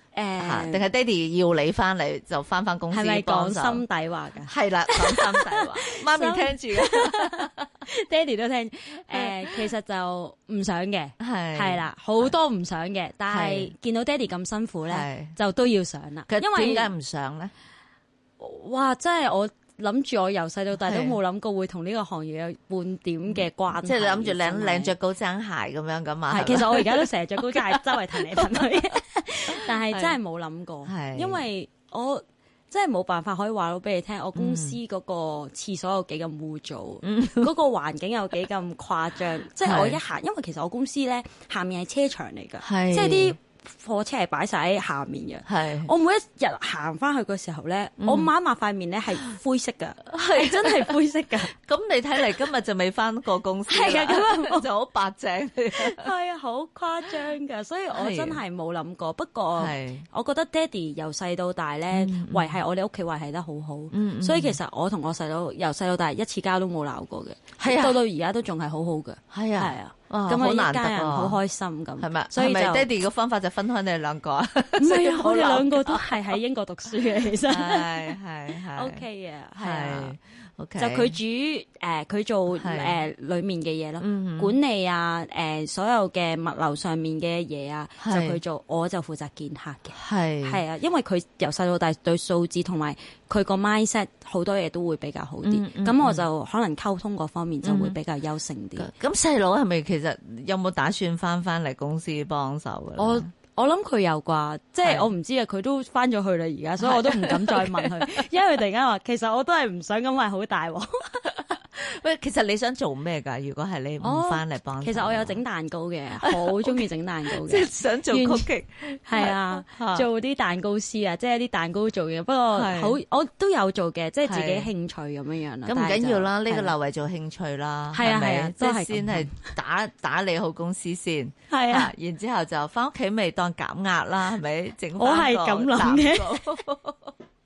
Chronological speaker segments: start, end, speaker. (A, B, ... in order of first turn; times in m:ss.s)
0:00.1-0:00.9 A
0:00.4-0:03.8 B
0:02.9-0:16.9 A
0:04.5-0:07.6 B
0:09.1-0:09.7 B
0:11.2-0:12.3 B
0:13.3-0:13.7 B
0:14.9-0:15.4 B
0:16.3-0:17.5 B
0:18.4-0:25.0 A
0:20.7-0:21.2 B
0:23.3-0:28.9 B
0:26.3-0:51.5 A
0:29.6-0:30.2 B
0:30.8-0:31.4 B
0:34.4-0:34.8 B
0:37.0-0:37.5 B
0:39.6-0:40.0 B
0:42.6-0:43.4 B
0:45.4-0:45.9 B
0:48.0-0:48.3 B
0:50.1-0:56.1 B
0:53.7-0:54.7 A
0:55.7-1:13.0 A
0:57.9-0:58.4 B
0:59.6-1:00.1 B
1:01.9-1:02.5 B
1:03.9-1:04.6 B
1:07.6-1:08.0 B
1:09.3-1:11.4 B
1:12.0-1:16.4 B
1:14.8-1:20.2 A
1:17.5-1:19.0 B
1:19.6-1:21.2 B
1:20.8-1:38.9 A
1:22.6-1:23.0 B
1:24.0-1:24.6 B
1:28.0-1:28.4 B
1:30.0-1:30.6 B
1:35.4-1:36.3 B
1:37.6-1:38.0 B
1:38.8-1:43.3 B
1:43.0-1:51.3 A
1:44.8-1:45.1 B
1:46.8-1:48.1 B
1:51.8-1:55.4 B
1:54.0-1:58.5 A
1:56.2-2:00.1 B
1:59.1-2:06.7 A
2:02.5-2:03.0 B
2:04.2-2:04.7 B
2:05.7-2:17.1 B
2:07.9-2:09.5 A
2:11.5-2:11.9 A
2:15.0-2:16.4 A